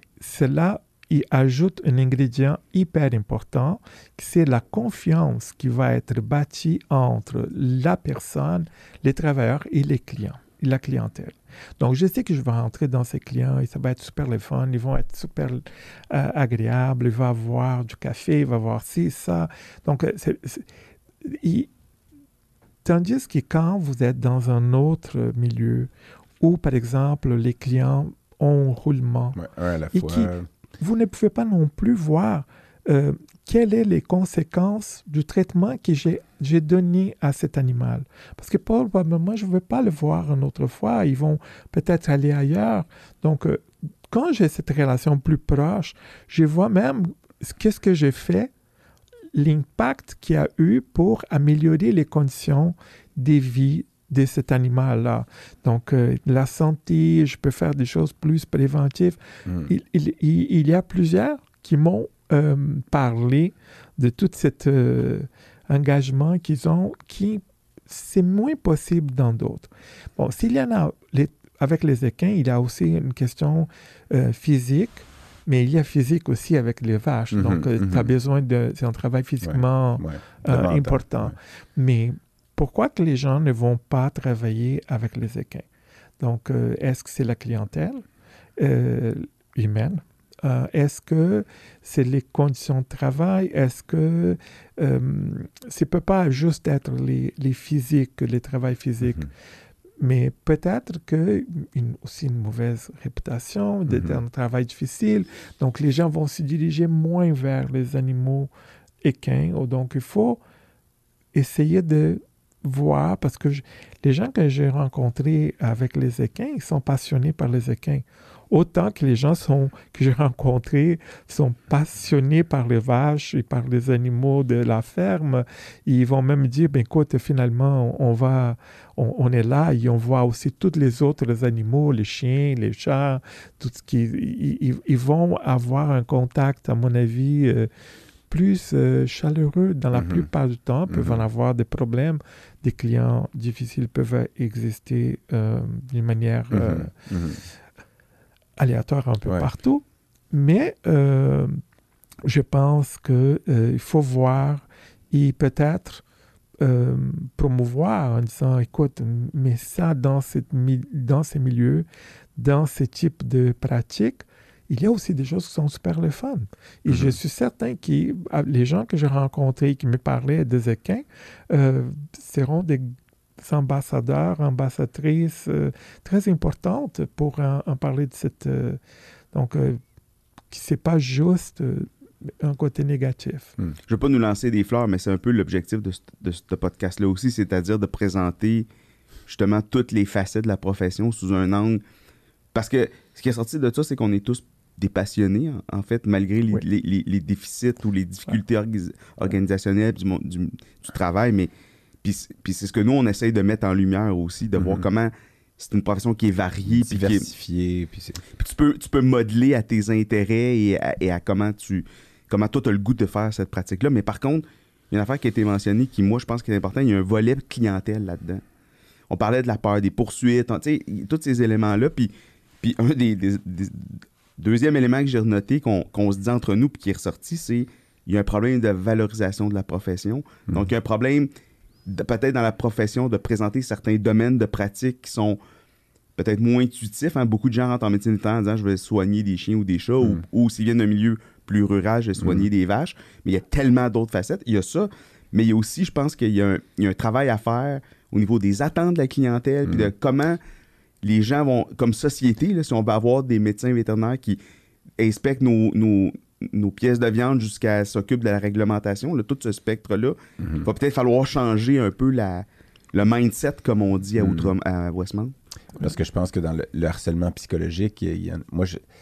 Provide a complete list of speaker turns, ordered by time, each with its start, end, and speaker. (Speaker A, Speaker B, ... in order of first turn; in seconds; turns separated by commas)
Speaker A: 0.2-20.6, Speaker A: 21.2-21.7, Speaker A: 22.8-25.9, Speaker A: 26.4-29.4, Speaker B: 29.3-30.5, Speaker A: 29.9-48.5, Speaker A: 49.3-85.6, Speaker B: 59.4-59.7, Speaker B: 77.3-78.1, Speaker B: 79.4-81.3, Speaker A: 86.2-88.0, Speaker A: 88.6-99.3, Speaker A: 100.0-108.5, Speaker B: 103.9-104.2, Speaker A: 109.0-110.4, Speaker A: 111.3-137.7, Speaker A: 138.3-146.9, Speaker B: 139.9-140.3, Speaker B: 140.9-141.2, Speaker B: 146.5-147.4, Speaker A: 148.6-151.6, Speaker A: 152.2-156.0, Speaker A: 156.6-178.8, Speaker B: 166.8-167.2, Speaker A: 179.3-179.8, Speaker A: 180.5-183.5, Speaker C: 183.9-188.7, Speaker C: 189.3-191.8, Speaker C: 192.5-201.5, Speaker C: 202.0-207.3, Speaker B: 204.6-204.8, Speaker B: 206.7-208.2, Speaker C: 208.3-218.4, Speaker C: 219.1-231.3, Speaker C: 231.9-235.4, Speaker C: 236.2-250.4, Speaker B: 242.2-242.5, Speaker B: 249.6-249.9, Speaker C: 251.0-254.4, Speaker C: 255.0-265.3, Speaker B: 260.4-260.6, Speaker B: 264.2-264.5, Speaker B: 265.8-268.8